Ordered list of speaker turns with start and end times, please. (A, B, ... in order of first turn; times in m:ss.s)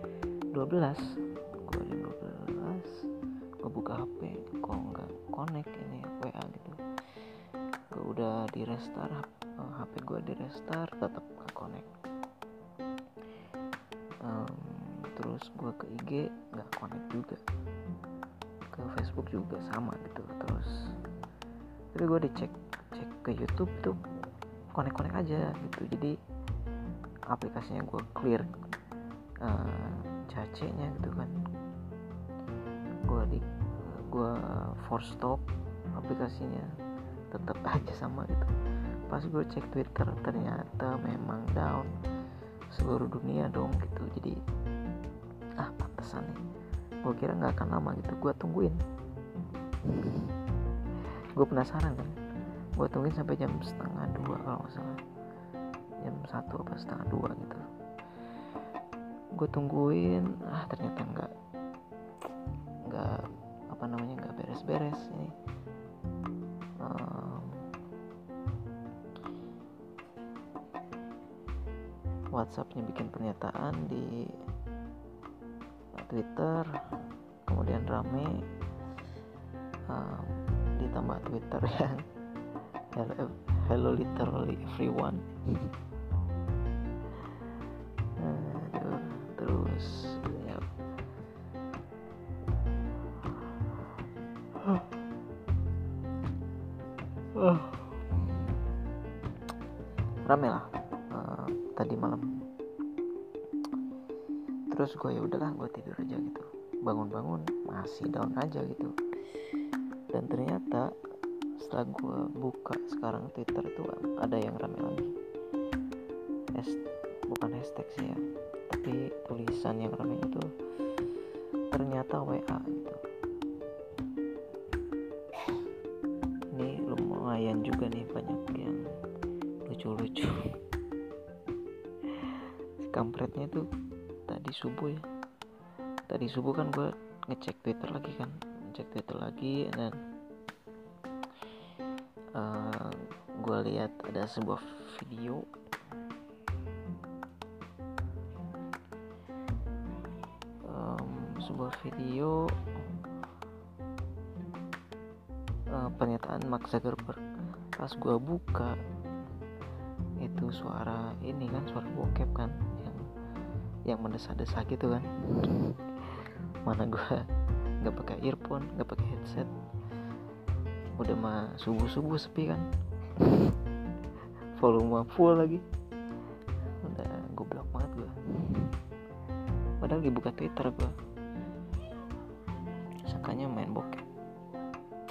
0:00.5-0:03.0 A
0:03.6-0:06.8 A
0:07.9-0:11.9 A
0:14.2-0:17.4 A
0:18.7-0:20.9 A
0:21.9-0:24.0 A
0:24.7-0:26.2 A
0:27.3-0:28.5 A
0:29.4-0:31.4 A
0:33.0-0:36.7 A
0:37.3-0:38.5 A
0:39.1-0:41.9 A
0:42.7-0:44.4 A
0:45.6-0:46.4 A
0:47.0-0:48.8 A
0:49.9-0:50.3 A
0:51.4-0:52.1 A
0:52.8-0:55.0 A
0:56.0-0:57.6 A
0:59.3-1:01.3 A
1:02.9-1:05.3 A
1:06.8-1:07.6 A
1:12.3-1:14.3 A
1:16.0-1:18.4 A
1:19.9-1:22.0 A
1:22.9-1:25.7 A
1:28.2-1:30.6 A
1:34.6-1:34.9 A
1:37.3-1:38.5 A
1:40.2-1:42.3 A
1:44.7-1:49.6 A
1:50.1-1:50.9 A
1:51.6-1:55.1 A
1:56.5-2:01.2 A
2:01.7-2:03.0 A
2:06.5-2:08.8 A
2:09.6-2:10.4 A
2:12.1-2:13.6 A
2:14.3-2:15.0 A
2:16.1-2:20.0 A
2:22.4-2:25.5 A
2:30.7-2:32.4 A
2:35.7-2:37.2 A
2:37.8-2:38.7 A
2:40.2-2:43.0 A
2:43.9-2:47.2 A
2:47.8-2:49.5 A
2:51.0-2:53.6 A
2:54.6-2:55.6 A
2:56.8-2:58.7 A
2:59.8-3:00.9 A
3:03.1-3:04.0 A